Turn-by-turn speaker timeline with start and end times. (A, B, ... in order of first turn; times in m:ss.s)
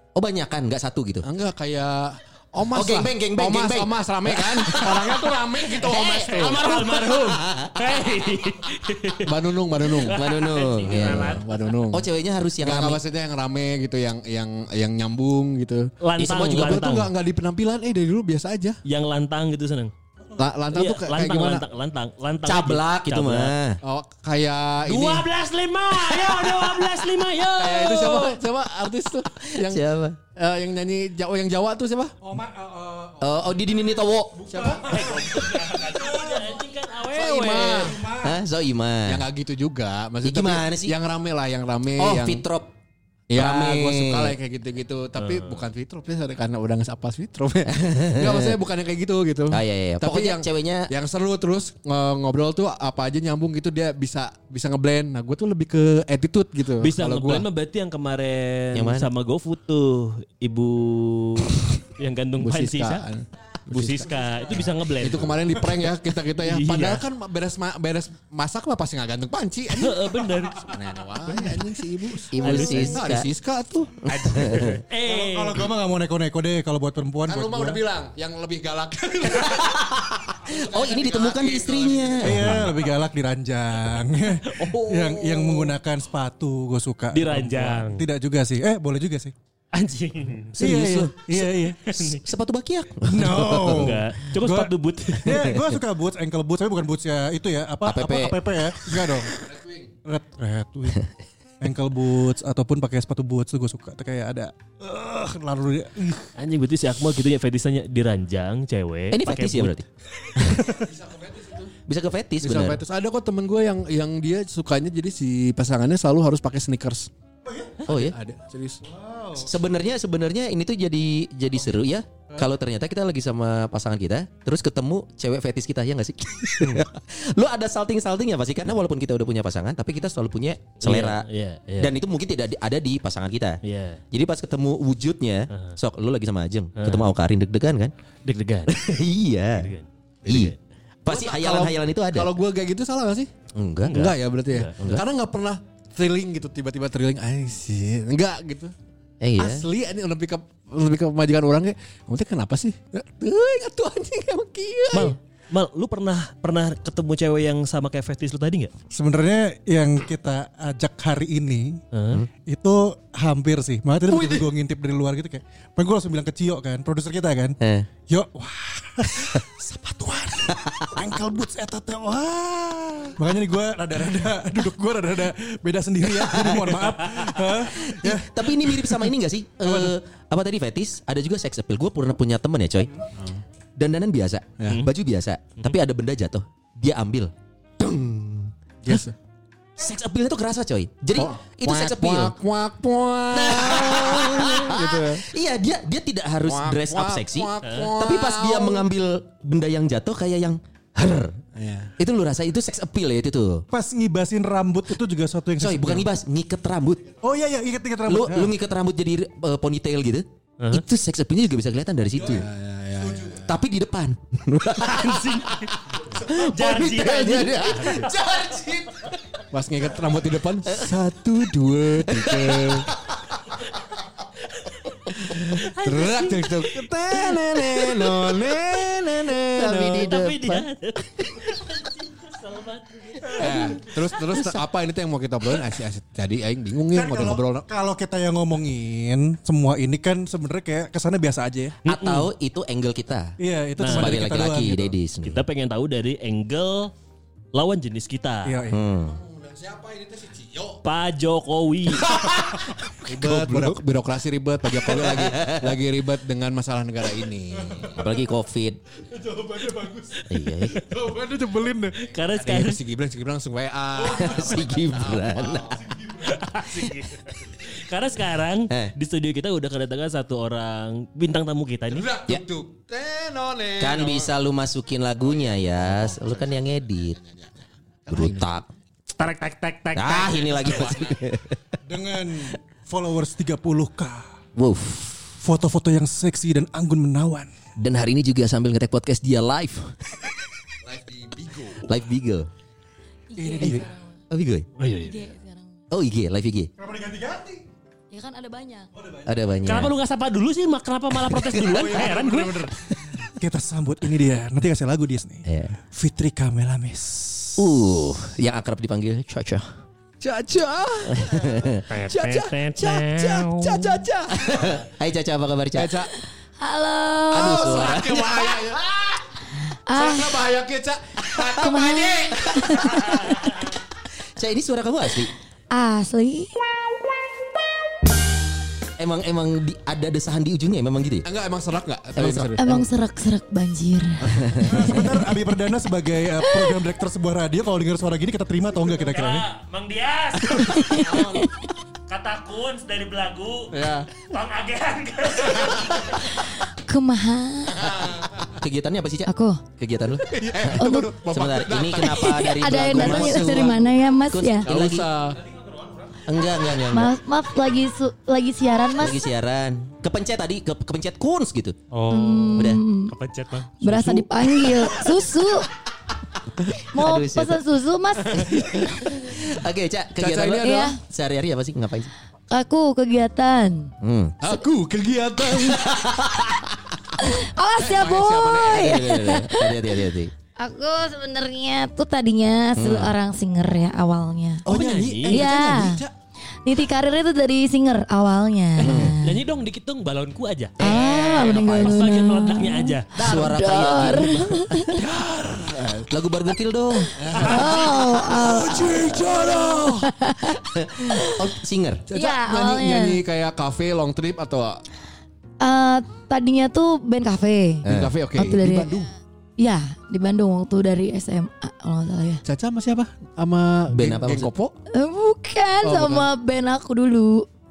0:00.2-0:01.2 A
0:01.2-0:06.7 B
0:02.7-0:08.3 A
0:06.4-0:11.7 C
0:09.2-0:10.2 B
0:10.1-0:13.0 A
0:10.9-0:12.0 B
0:12.6-0:18.8 B
0:16.0-0:17.1 C
0:16.2-0:16.8 A
0:18.8-0:19.9 C
0:20.4-0:21.6 B
0:20.7-0:23.5 C
0:22.4-0:23.8 A
0:23.8-0:25.3 B
0:24.9-0:28.4 C
0:26.1-0:26.6 B
0:27.6-0:29.8 B
0:29.5-0:30.2 A
0:30.4-0:32.2 B
0:32.3-0:33.3 D
0:33.2-0:34.7 A
0:34.4-0:36.5 D
0:34.5-0:34.9 B
0:34.9-0:38.0 C
0:37.1-0:38.1 B
0:38.0-0:38.3 D
0:38.1-0:39.2 A
0:39.1-0:42.4 B
0:40.2-0:41.0 A
0:42.0-0:42.7 A
0:43.3-0:57.5 B
0:43.3-0:44.4 A
0:45.2-0:45.6 C
0:47.7-0:48.6 A
0:49.5-0:50.9 A
0:56.8-1:03.0 C
0:58.7-0:59.1 A
1:02.4-1:04.2 B
1:03.7-1:05.6 C
1:05.0-1:13.9 B
1:06.4-1:07.0 C
1:09.8-1:10.7 C
1:12.3-1:13.3 A
1:12.4-1:13.0 C
1:14.0-1:14.8 A
1:14.1-1:15.7 C
1:15.0-1:17.8 D
1:17.3-1:22.6 B
1:19.3-1:22.8 A
1:22.2-1:29.3 D
1:25.1-1:25.3 C
1:27.1-1:28.1 C
1:29.7-1:30.5 C
1:30.6-1:31.8 D
1:30.6-1:34.0 A
1:31.9-1:32.2 C
1:33.0-1:39.4 D
1:33.5-1:35.6 C
1:35.3-1:35.8 A
1:37.8-1:39.2 A
1:39.4-1:39.9 B
1:40.0-1:41.1 D
1:41.6-1:46.3 D
1:46.4-1:49.8 C
1:49.1-1:49.9 A
1:50.7-1:51.7 B
1:51.9-1:52.8 A
1:52.4-1:57.1 B
1:57.5-1:57.8 D
1:57.9-1:58.2 A
1:57.9-1:58.8 B
1:58.9-1:59.5 D
1:59.4-2:11.3 A
2:10.8-2:11.9 C
2:11.8-2:13.6 A
2:13.6-2:14.0 C
2:14.1-2:17.9 A
2:15.5-2:15.8 C
2:16.8-2:17.1 C
2:18.3-2:18.8 C
2:18.7-2:19.7 A
2:19.6-2:20.6 C
2:20.3-2:22.3 A
2:21.1-2:23.3 B
2:23.5-2:24.1 A
2:23.9-2:24.7 C
2:23.9-2:28.7 B
2:24.8-2:25.0 A
2:29.2-2:29.7 A
2:29.4-2:35.2 B
2:34.9-2:38.7 C
2:38.9-2:41.8 D
2:41.9-2:42.2 C
2:42.5-2:47.6 D
2:44.1-2:44.4 B
2:47.6-2:47.9 A
2:48.1-2:59.1 D
2:50.5-2:51.2 A
2:56.0-3:02.9 A
2:59.6-3:00.0 D
3:03.8-3:07.3 A
3:04.6-3:04.9 B
3:07.8-3:09.2 B
3:09.8-3:12.4 A
3:11.2-3:15.2 B
3:13.3-3:21.4 A
3:16.4-3:18.9 B
3:17.6-3:17.9 C
3:21.6-3:21.9 B
3:22.0-3:23.6 A
3:23.7-3:26.1 D
3:25.6-3:27.1 A
3:27.2-3:28.5 D
3:28.1-3:32.5 A
3:32.2-3:33.6 B
3:33.3-3:35.2 A
3:34.8-3:35.8 C
3:36.2-3:38.9 B
3:36.2-3:37.5 A
3:36.3-3:38.1 C
3:39.5-3:42.9 B
3:40.7-3:41.0 A
3:42.0-3:43.2 A
3:44.6-3:45.0 C
3:45.2-3:45.7 A
3:45.5-3:46.5 C
3:45.6-3:50.1 B
3:47.0-3:51.4 A
3:49.7-3:54.4 C
3:53.4-3:57.7 B
3:56.9-4:01.8 D
4:01.9-4:03.4 A
4:01.9-4:02.3 C
4:03.4-4:04.9 D
4:03.8-4:04.2 C
4:03.9-4:05.4 A
4:05.2-4:06.9 C
4:07.5-4:08.6 C
4:08.4-4:08.8 D
4:08.7-4:09.2 A
4:08.9-4:10.8 B
4:10.8-4:12.1 C
4:12.0-4:18.0 B
4:12.7-4:13.8 D
4:14.8-4:15.8 A
4:17.9-4:18.8 A
4:19.1-4:20.3 D
4:20.3-4:21.0 A
4:20.8-4:22.2 D
4:22.0-4:22.8 C
4:22.4-4:25.6 B
4:24.0-4:25.9 A
4:25.7-4:26.3 D
4:26.2-4:32.1 C
4:31.9-4:34.3 B
4:33.8-4:37.2 A
4:35.4-4:36.6 B
4:37.2-4:37.5 B
4:38.1-4:38.5 B
4:38.1-4:38.7 A
4:39.2-4:40.8 C
4:39.9-4:41.6 A
4:40.3-4:41.2 B
4:41.9-4:44.3 D
4:44.6-4:45.3 A
4:45.4-4:47.5 D
4:47.8-4:50.3 A
4:50.8-4:51.9 B
4:51.8-4:52.5 A
4:53.3-4:54.0 E
4:53.4-4:53.9 D
4:53.6-4:54.7 A
4:54.8-4:55.2 C
4:55.0-4:55.7 E
4:55.9-4:56.7 A
4:56.8-4:57.6 D
4:58.1-4:58.9 E
4:59.0-4:59.3 D
4:59.2-4:59.9 A
4:59.6-5:02.7 C
5:01.3-5:01.9 A
5:01.6-5:07.7 D
5:05.5-5:05.7 A
5:07.6-5:09.7 A
5:10.2-5:14.8 B
5:11.1-5:11.8 A
5:11.9-5:14.0 C
5:14.3-5:16.0 A
5:15.8-5:16.1 B
5:16.6-5:17.7 E
5:17.3-5:18.4 A
5:17.3-5:23.4 B
5:19.9-5:20.5 E
5:21.6-5:23.2 E
5:24.4-5:25.3 A
5:25.7-5:26.5 E
5:29.0-5:31.3 A
5:31.2-5:32.6 B
5:32.2-5:32.8 A
5:32.6-5:35.2 E
5:34.3-5:34.8 A
5:34.6-5:39.5 D
5:36.4-5:36.8 E
5:39.0-5:41.1 C
5:40.5-5:41.7 E
5:40.9-5:41.5 B
5:42.1-5:46.2 C
5:43.7-5:44.1 B
5:46.5-5:47.9 E
5:47.8-5:48.5 B
5:48.6-5:55.1 A
5:49.3-5:49.6 E
5:50.3-5:53.8 B
5:50.7-5:51.1 E
5:52.0-5:54.7 E
5:54.7-5:55.4 B
5:56.3-5:57.1 A
5:56.9-5:59.2 E
5:59.0-6:01.8 A
6:01.9-6:04.2 C
6:02.1-6:03.1 E
6:02.6-6:02.8 A
6:03.8-6:05.7 E
6:06.6-6:07.6 A
6:06.9-6:08.6 E
6:08.3-6:12.1 A
6:10.2-6:10.9 B
6:10.6-6:11.0 E
6:12.5-6:13.9 E
6:14.0-6:14.4 A
6:14.4-6:16.6 B
6:15.6-6:16.6 A
6:17.2-6:20.0 E
6:17.3-6:19.0 B
6:18.7-6:20.3 A
6:20.6-6:24.7 E
6:22.8-6:23.1 A
6:24.7-6:25.6 C
6:24.7-6:26.1 B
6:25.3-6:26.0 E
6:26.6-6:29.4 E
6:28.8-6:29.2 A
6:29.2-6:30.8 C
6:30.8-6:35.0 E
6:30.8-6:32.0 B
6:31.7-6:33.1 C
6:33.1-6:35.0 A
6:35.0-6:36.1 B
6:36.1-6:37.4 A
6:37.2-6:40.1 B
6:37.3-6:37.9 C
6:37.4-6:41.4 E
6:40.6-6:42.0 A
6:42.1-6:44.8 B
6:42.1-6:43.2 E
6:45.6-6:48.9 E
6:47.8-6:48.1 A
6:47.9-6:49.1 B
6:49.6-6:52.4 E
6:52.4-6:54.7 B
6:53.9-6:54.5 A
6:54.9-6:57.5 E
6:55.8-6:56.3 B